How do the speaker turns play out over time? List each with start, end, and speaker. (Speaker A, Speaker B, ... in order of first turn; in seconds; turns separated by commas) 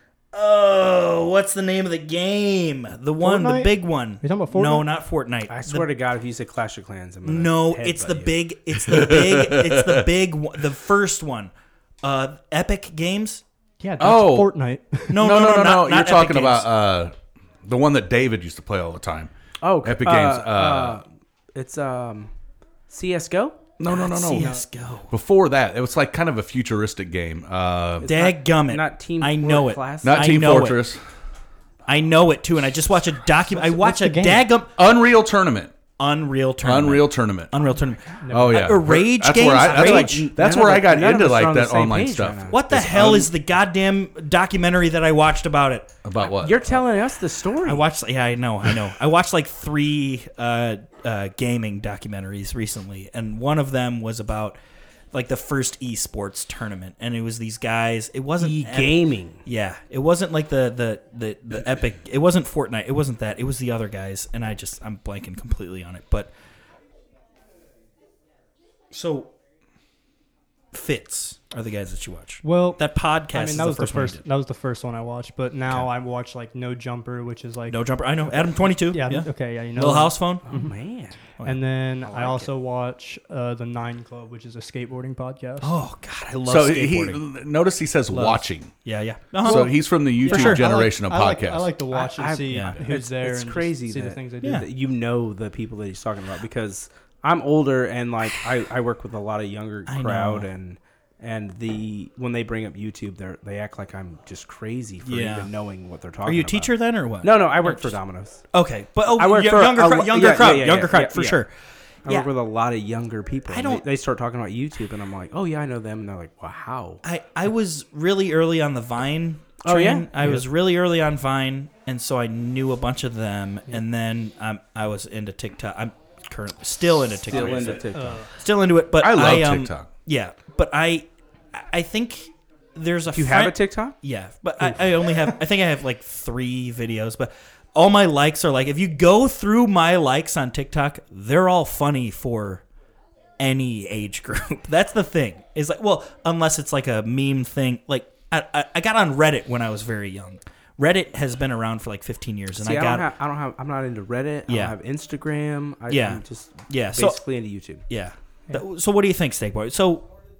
Speaker A: 0.3-5.9, Speaker B: 3.2-4.9, Speaker C: 5.5-8.4, Speaker A: 7.2-11.5, Speaker D: 8.9-10.0, Speaker A: 12.0-13.4, Speaker B: 13.8-15.1, Speaker D: 14.0-14.5, Speaker A: 15.1-16.7, Speaker D: 15.1-21.0, Speaker C: 19.6-22.3, Speaker C: 22.9-23.6, Speaker D: 23.8-24.6, Speaker A: 23.9-25.1, Speaker B: 24.3-24.6, Speaker D: 25.1-28.1, Speaker C: 28.0-30.4, Speaker A: 28.1-30.8, Speaker D: 30.0-31.0, Speaker A: 31.9-34.7, Speaker B: 33.5-34.5, Speaker D: 34.8-35.7, Speaker A: 36.0-40.3, Speaker D: 36.6-37.6, Speaker B: 38.2-38.5, Speaker D: 38.3-43.2, Speaker C: 39.6-43.3, Speaker A: 42.5-45.9, Speaker D: 46.0-46.6, Speaker C: 46.4-47.8, Speaker A: 47.6-54.6, Speaker A: 55.1-66.3, Speaker C: 58.4-59.4, Speaker A: 68.9-69.3, Speaker A: 70.7-74.2, Speaker B: 72.4-80.7, Speaker A: 77.7-80.5, Speaker C: 80.4-81.3, Speaker B: 81.4-85.7, Speaker C: 82.0-82.5, Speaker A: 85.6-87.2, Speaker D: 86.5-88.7, Speaker B: 88.1-88.4, Speaker A: 88.8-90.7, Speaker D: 89.4-91.7, Speaker B: 89.4-94.5, Speaker C: 91.9-108.4, Speaker A: 92.5-92.8, Speaker A: 99.9-100.5, Speaker A: 105.0-105.5, Speaker A: 106.2-108.0, Speaker A: 108.5-111.5, Speaker C: 109.1-111.5, Speaker C: 112.0-117.0, Speaker A: 113.5-113.8, Speaker A: 117.0-142.6, Speaker C: 119.6-120.5, Speaker C: 127.3-128.2, Speaker B: 127.9-128.3, Speaker D: 129.0-129.9, Speaker C: 133.1-133.9, Speaker A: 143.4-153.1, Speaker C: 152.6-157.8, Speaker A: 154.5-154.7, Speaker A: 155.9-160.1